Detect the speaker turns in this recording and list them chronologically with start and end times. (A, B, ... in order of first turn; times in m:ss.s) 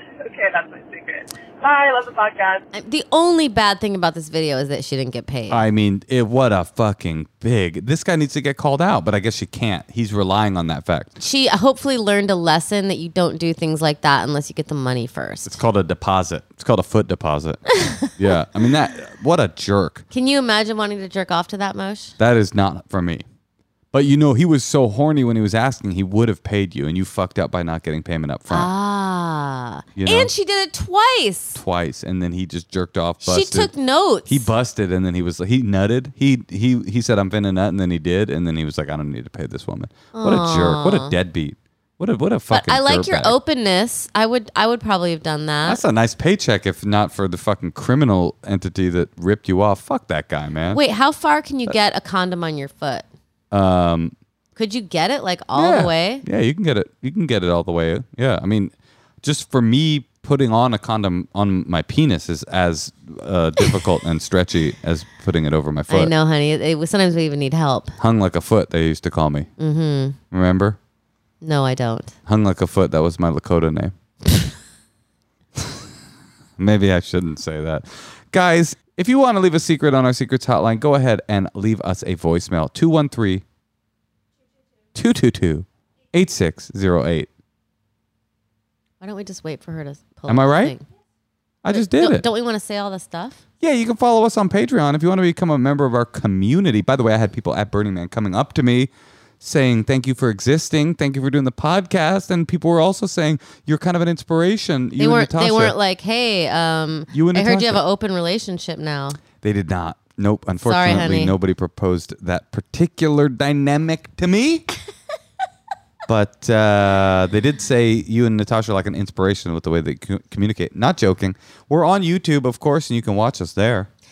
0:00.2-0:02.6 A
0:02.7-0:05.6 B
0:05.5-0:11.2 C
0:11.2-0:15.6 B
0:15.4-0:17.6 C
0:18.2-0:20.0 C
0:20.1-0:22.2 B
0:22.2-0:23.2 C
0:23.9-0:28.7 C
0:28.5-0:31.6 B
0:30.0-0:30.3 C
0:31.5-0:33.7 C
0:33.2-0:34.5 B
0:34.3-0:43.4 C
0:40.1-0:41.2 B
0:42.5-0:45.8 B
0:45.6-0:50.8 C
0:50.7-0:53.0 B
0:53.5-0:54.1 C
0:54.6-0:56.2 B
0:55.5-1:06.1 C
1:05.9-1:08.0 B
1:08.0-1:09.5 C
1:09.6-1:10.2 B
1:10.3-1:10.8 C
1:11.4-1:12.1 B
1:12.3-1:13.9 C
1:16.6-1:23.4 C
1:24.9-1:27.3 C
1:29.0-1:30.8 B
1:30.3-1:30.8 C
1:31.6-1:32.2 C
1:31.7-1:33.4 B
1:33.6-1:45.7 C
1:45.0-1:49.2 B
1:47.1-1:47.8 C
1:49.4-1:54.7 C
1:50.6-1:51.3 B
1:56.1-2:03.9 C